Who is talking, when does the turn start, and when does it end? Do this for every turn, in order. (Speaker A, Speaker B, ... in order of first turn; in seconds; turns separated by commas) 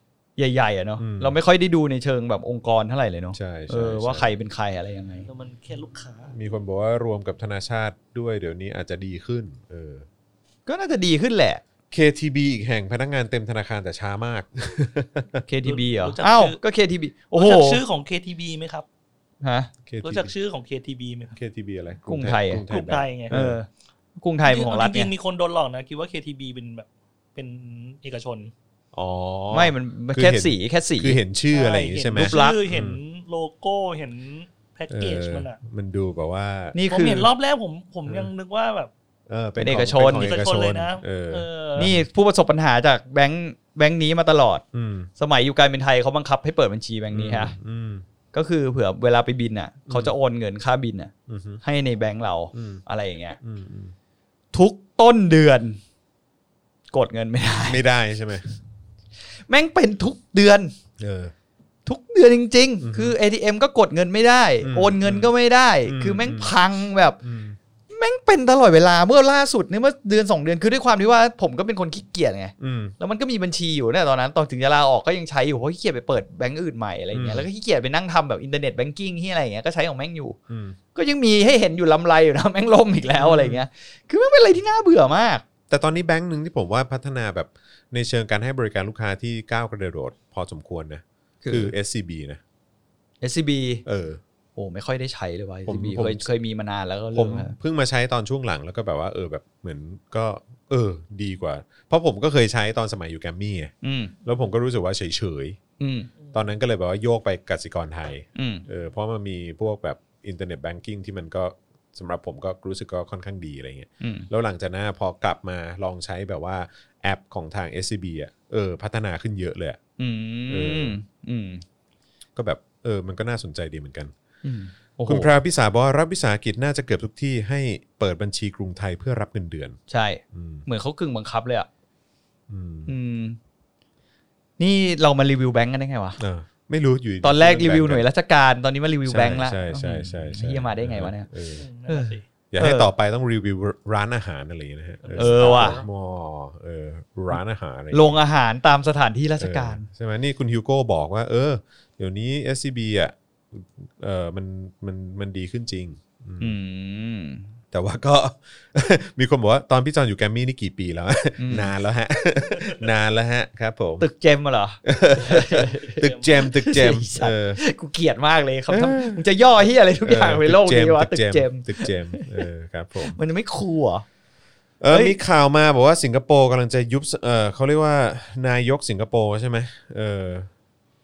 Speaker A: 0.4-5.3, Speaker B: 1.0-1.4, Speaker B: 3.3-4.3, Speaker C: 5.3-6.3, Speaker B: 6.3-10.1, Speaker A: 10.7-11.6, Speaker B: 11.9-15.4, Speaker A: 15.5-17.8, Speaker C: 15.6-16.6, Speaker C: 17.4-18.9, Speaker A: 19.4-19.7, Speaker B: 19.9-20.3, Speaker C: 20.0-21.4, Speaker B: 21.4-23.6, Speaker A: 22.1-22.6, Speaker C: 22.7-23.4, Speaker A: 23.3-25.1, Speaker C: 24.4-28.5, Speaker B: 28.9-33.0, Speaker A: 29.5-31.2, Speaker C: 31.5-35.6, Speaker A: 32.2-32.6, Speaker B: 34.9-36.8, Speaker A: 36.7-37.3, Speaker C: 36.9-38.9, Speaker B: 39.3-42.1, Speaker A: 39.6-40.3, Speaker C: 40.0-41.9, Speaker A: 41.8-44.6, Speaker B: 44.7-45.1, Speaker A: 45.2-47.5, Speaker B: 47.1-48.0, Speaker A: 48.3-53.4, Speaker B: 49.9-50.1, Speaker B: 51.3-51.6, Speaker B: 52.5-52.8, Speaker B: 53.4-53.9, Speaker A: 54.5-55.8, Speaker A: 56.9-57.8, Speaker B: 57.6-58.5, Speaker A: 59.5-60.7, Speaker B: 61.0-61.3, Speaker A: 61.9-67.2, Speaker B: 62.8-63.1, Speaker B: 64.6-65.3, Speaker B: 65.8-66.5, Speaker B: 67.2-67.6, Speaker A: 67.9-80.4, Speaker B: 72.6-73.0, Speaker B: 77.1-77.5, Speaker B: 80.5-80.8, Speaker A: 81.0-85.4, Speaker B: 83.2-83.6, Speaker B: 85.7-92.4, Speaker A: 91.4-91.7, Speaker A: 93.2-93.8, Speaker B: 93.9-94.2, Speaker A: 94.6-97.5, Speaker B: 95.7-96.3, Speaker B: 97.1-103.7, Speaker A: 103.8-104.2, Speaker B: 104.2-105.6, Speaker A: 105.8-106.1, Speaker B: 106.3-119.8, Speaker A: 108.4-108.7, Speaker A: 114.0-114.3, Speaker A: 120.0-121.6, Speaker B: 120.5-121.0, Speaker B: 122.4-124.1, Speaker A: 124.4-125.3, Speaker B: 125.1-129.8, Speaker A: 129.9-131.7, Speaker B: 130.3-130.7, Speaker B: 132.5-132.9, Speaker A: 132.9-133.4, Speaker A: 134.6-136.2, Speaker B: 136.2-138.1, Speaker A: 137.2-141.3, Speaker B: 139.1-141.7, Speaker C: 141.5-142.3, Speaker A: 141.9-142.9, Speaker B: 142.5-148.2, Speaker C: 145.0-145.9, Speaker A: 145.2-145.8, Speaker A: 147.9-149.9, Speaker B: 149.4-156.6, Speaker A: 156.4-157.5, Speaker B: 157.7-164.1, Speaker A: 161.4-161.7, Speaker A: 164.0-172.4, Speaker B: 164.8-167.6, Speaker C: 165.9-166.4, Speaker B: 168.7-169.2, Speaker B: 170.0-173.2, Speaker A: 173.0-174.1, Speaker B: 174.8-180.5, Speaker A: 174.9-175.2